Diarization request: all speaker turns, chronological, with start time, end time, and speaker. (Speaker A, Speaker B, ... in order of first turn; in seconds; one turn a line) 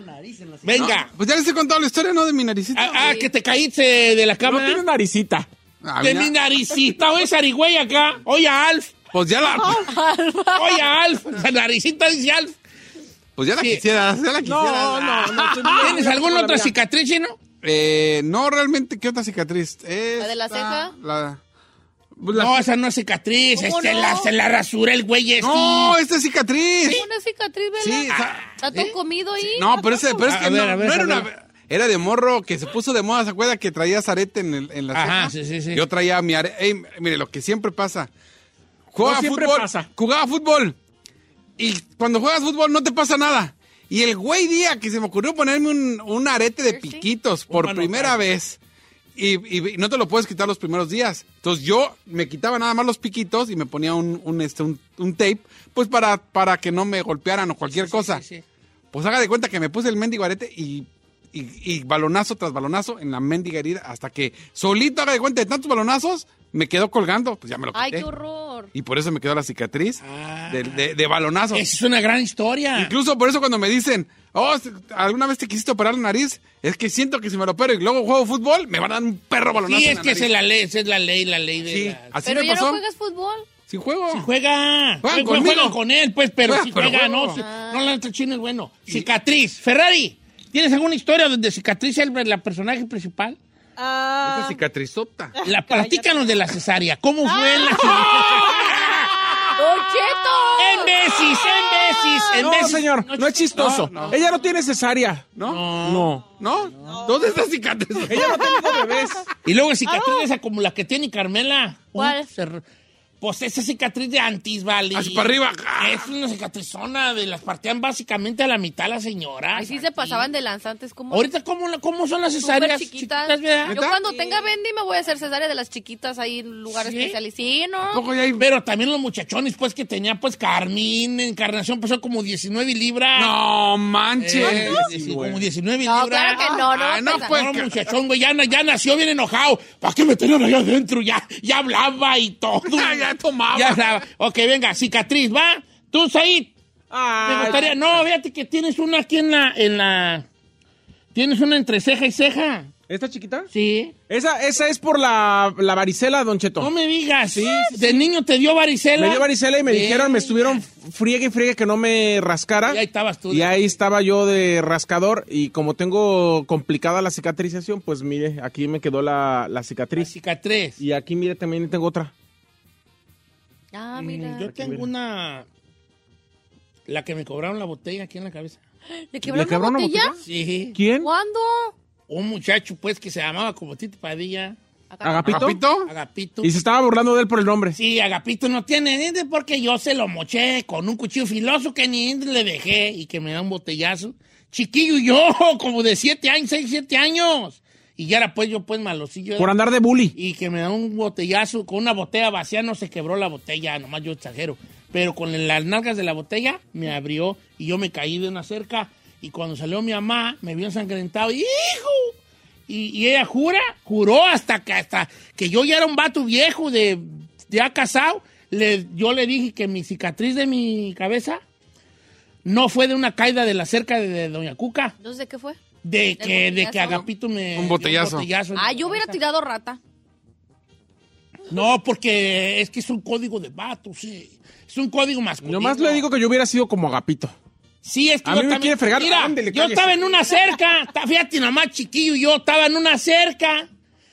Speaker A: 0.2-1.1
Speaker B: 0.8-3.2
Speaker A: 2.8-4.8
Speaker C: 2.9-3.3
Speaker D: 4.4-5.5
Speaker B: 5.8-6.3
Speaker A: 6.0-9.0
Speaker B: 9.1-9.9
Speaker C: 9.8-10.8
Speaker A: 10.6-12.6
Speaker B: 13.4-16.0
Speaker D: 14.4-16.7
Speaker A: 15.2-17.4
Speaker B: 17.6-21.4
Speaker C: 20.2-20.9
Speaker B: 22.2-22.6
Speaker A: 22.3-26.0
Speaker C: 23.6-24.3
Speaker B: 25.4-27.1
Speaker C: 26.9-30.3
Speaker B: 27.8-28.4
Speaker A: 28.1-28.9
Speaker B: 29.6-38.1
Speaker A: 30.2-31.3
Speaker A: 34.9-35.8
Speaker B: 38.9-40.8
Speaker D: 39.0-39.9
Speaker B: 41.6-48.6
Speaker C: 46.7-47.1
Speaker A: 47.5-48.2
Speaker B: 49.2-58.2
Speaker A: 57.7-58.4
Speaker B: 58.9-68.1
Speaker C: 67.7-68.7
Speaker B: 68.7-71.7
Speaker A: 70.0-70.8
Speaker A: 71.5-72.9
Speaker B: 72.8-80.3
Speaker A: 79.6-82.0
Speaker B: 81.7-82.8
Speaker C: 82.2-83.5
Speaker B: 83.7-84.3
Speaker A: 84.1-93.4
Speaker B: 85.0-85.8
Speaker B: 86.5-87.4
Speaker C: 87.4-87.9
Speaker E: 93.8-94.6
Speaker B: 94.2-95.3
Speaker E: 95.4-96.4
Speaker A: 95.5-99.5
Speaker E: 97.2-98.4
Speaker C: 99.6-100.9
Speaker A: 100.6-104.1
Speaker E: 102.1-102.4
Speaker D: 102.4-106.2
Speaker B: 103.6-104.2
Speaker B: 105.4-108.5
Speaker A: 105.4-106.1
Speaker E: 106.8-107.3
Speaker D: 108.1-109.2
Speaker E: 108.4-109.0
Speaker A: 109.5-112.6
Speaker E: 109.9-110.3
Speaker C: 112.0-112.3
Speaker A: 113.2-120.3
Speaker B: 114.9-116.1
Speaker C: 119.5-121.3
Speaker A: 121.1-123.8
Speaker C: 122.4-128.0
Speaker B: 123.7-124.0
Speaker E: 124.1-124.5
Speaker A: 126.7-127.2
Speaker B: 127.9-128.4
Speaker A: 128.4-133.3
Speaker B: 133.2-134.9
Speaker A: 134.2-146.5
Speaker D: 134.5-135.4
Speaker C: 135.8-137.3
Speaker B: 136.7-137.9
Speaker B: 142.7-144.0
Speaker D: 146.9-147.8
Speaker A: 147.2-150.2
Speaker A: 151.1-152.7
Speaker D: 152.9-153.5
Speaker A: 153.5-153.9
Speaker D: 154.1-156.7
Speaker A: 156.6-160.7
Speaker D: 157.3-157.8
Speaker D: 159.0-170.1
Speaker A: 162.7-163.8
Speaker A: 170.0-170.8
Speaker D: 170.8-172.1
Speaker C: 173.7-174.5
Speaker A: 173.9-175.5
Speaker D: 174.4-174.9
Speaker A: 176.9-178.6
Speaker C: 179.1-180.2
Speaker D: 179.2-180.2
Speaker A: 180.2-180.8
Speaker D: 180.8-181.1
Speaker C: 181.0-181.7
Speaker A: 182.1-184.6
Speaker C: 184.9-185.5
Speaker D: 185.0-185.6
Speaker B: 185.3-185.9
Speaker A: 185.9-186.6
Speaker D: 186.4-187.8
Speaker A: 187.8-199.5
Speaker D: 199.4-200.2
Speaker A: 200.2-212.2
Speaker A: 212.7-221.4
Speaker A: 222.4-224.9
Speaker C: 225.0-225.6
Speaker A: 225.8-229.2
Speaker C: 226.2-227.0
Speaker B: 226.9-228.3
Speaker C: 228.6-229.8
Speaker A: 231.5-236.1
Speaker D: 235.4-237.3
Speaker A: 237.8-243.7
Speaker D: 238.2-240.1